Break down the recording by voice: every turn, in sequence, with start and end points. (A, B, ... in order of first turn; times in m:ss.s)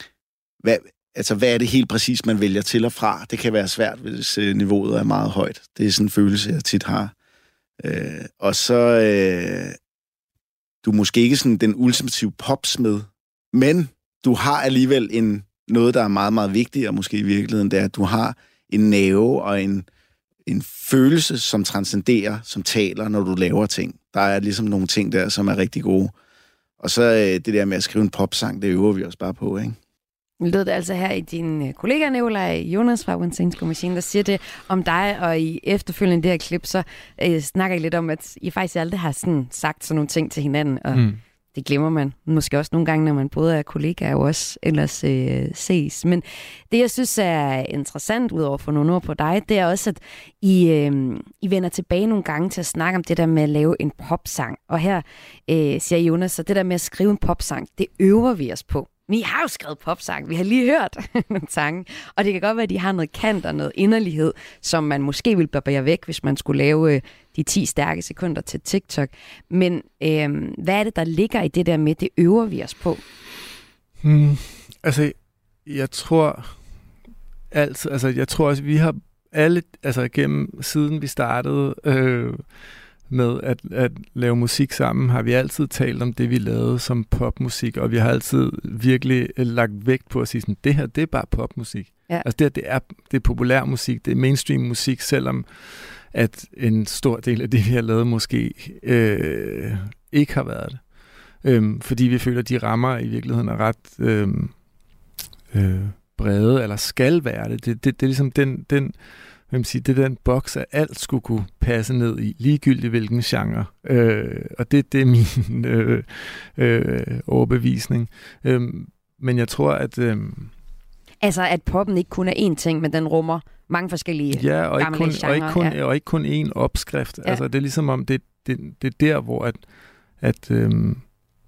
0:00.6-0:07.1 A
0:07.8-0:09.8 A
0:10.8-0:19.9 A
0:20.4-0:26.1 A
0:26.8-0:29.8 A
0:30.4-0:41.0 B
0:40.9-0:41.2 C
0:41.5-1:13.0 B
1:14.0-1:16.6 C
1:17.5-1:22.5 C
1:23.1-1:40.8 C
1:41.4-1:44.5 C
1:45.5-1:49.0 C
1:49.5-2:00.5 C
2:01.2-2:05.8 B
2:04.3-2:09.6 C
2:10.2-2:11.0 C